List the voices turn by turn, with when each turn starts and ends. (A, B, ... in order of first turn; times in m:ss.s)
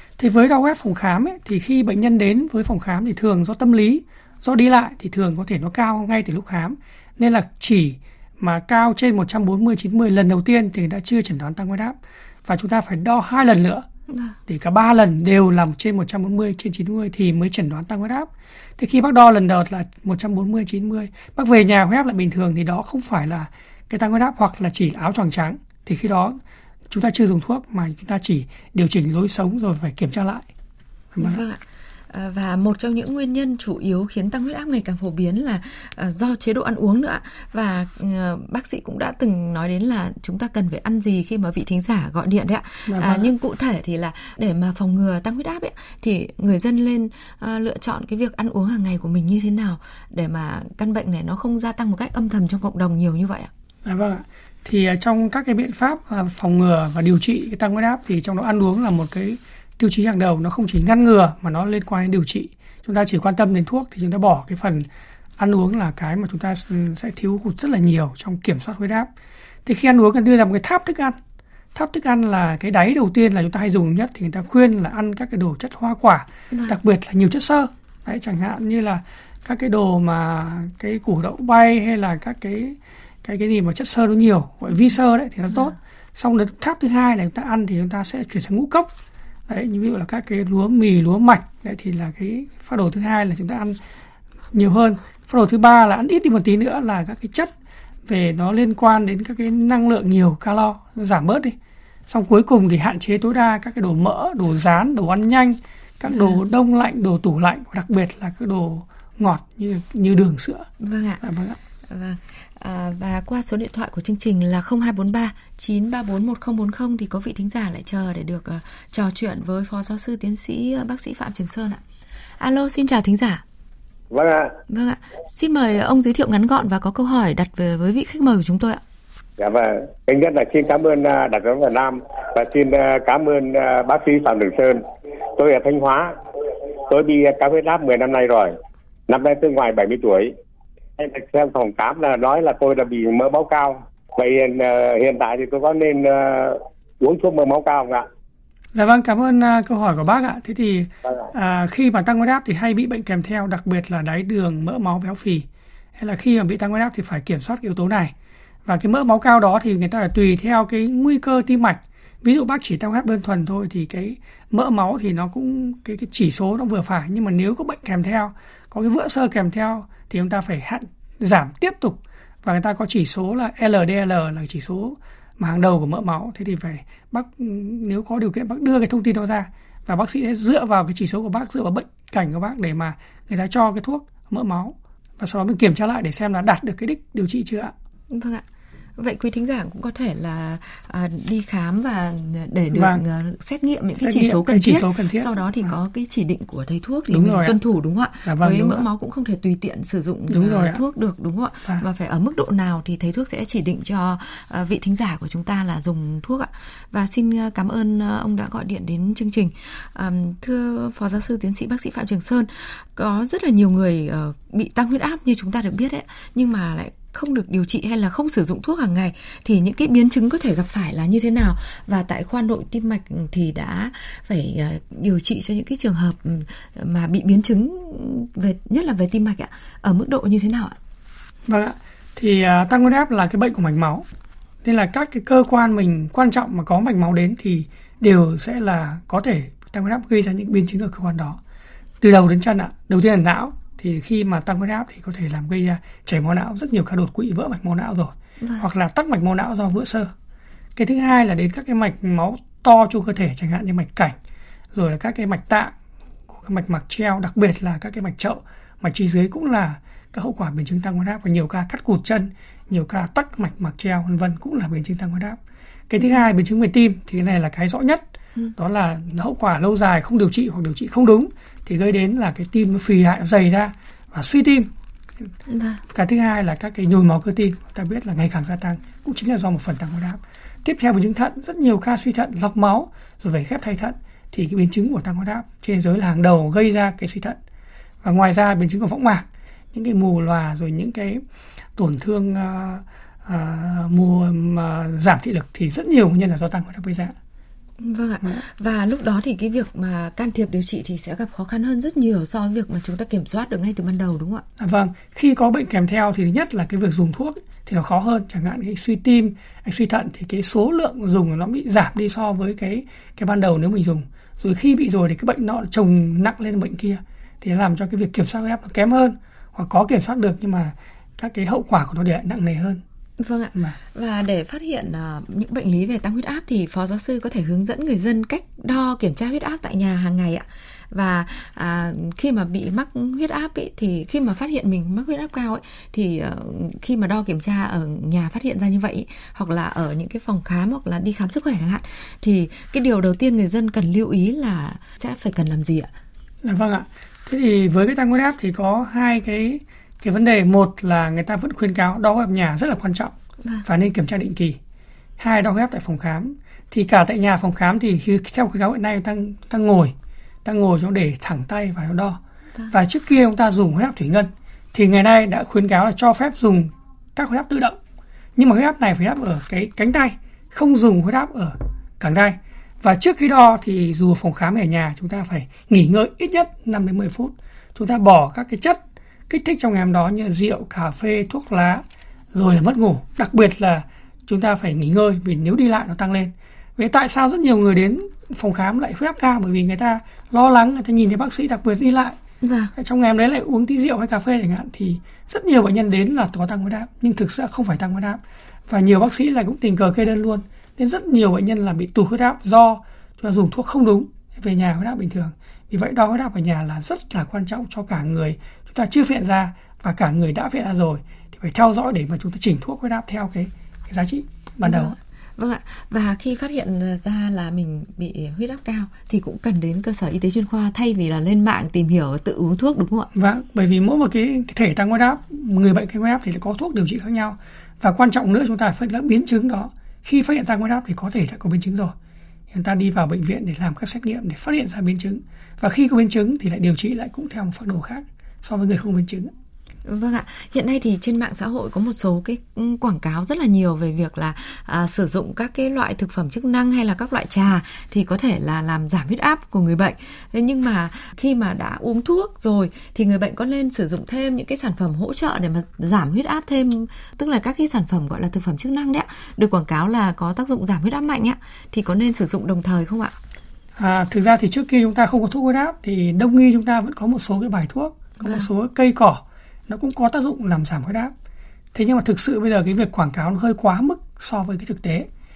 0:00.2-0:13.8 A
0:14.1-0:14.4 B
0:14.5-0:26.4 A
0:26.9-0:30.5 A
0:31.2-0:31.4 A
0:31.2-0:53.5 B
0:42.9-0:43.3 A
0:53.8-1:04.9 A
1:05.4-1:09.1 A
1:09.7-1:11.2 A
1:11.7-1:28.9 A
1:16.5-1:16.8 B
1:29.5-1:33.8 A
1:34.5-1:37.5 A
1:38.1-1:41.6 A
1:42.1-1:50.7 A
1:46.1-1:46.4 B
1:50.8-1:51.2 B
1:51.2-1:51.6 A
1:51.9-2:01.8 B
2:02.4-2:03.4 B
2:04.1-2:04.6 C
2:04.7-2:08.8 B
2:09.4-2:14.8 C
2:15.4-2:16.2 C
2:16.9-2:18.5 C
2:19.1-2:20.3 C
2:21.0-2:28.1 C
2:28.8-2:35.5 A
2:36.0-2:38.1 A
2:38.7-3:07.7 A
3:08.1-3:08.4 B
3:09.0-3:50.8 B
3:12.7-3:13.0 A
3:14.0-3:15.7 A
3:17.1-3:17.6 A
3:18.2-3:18.9 A
3:20.3-3:20.8 A
3:51.5-3:54.0 A
3:54.6-4:01.4 A
4:02.0-4:10.1 A
4:10.8-4:14.2 A
4:14.7-4:15.7 A
4:16.4-4:25.4 A
4:25.9-4:28.0 A
4:28.6-4:34.7 A
4:35.5-4:35.8 B
4:35.9-4:47.4 A
4:48.0-4:51.2 A
4:51.8-4:57.2 A
4:57.8-5:04.4 B
5:04.6-5:22.8 A
5:23.2-5:45.9 B
5:46.4-5:53.1 A
5:53.6-5:54.6 A
5:55.2-5:59.9 A
6:00.4-6:02.2 A
6:02.7-6:07.8 A
6:08.4-6:32.2 A
6:32.4-6:32.7 B
6:32.8-6:55.0 A
6:54.6-7:03.1 B
7:03.2-7:11.9 A
7:12.5-7:19.3 A
7:19.8-7:43.2 B
7:43.8-7:51.1 A
7:48.2-7:48.5 B
7:51.7-7:55.1 A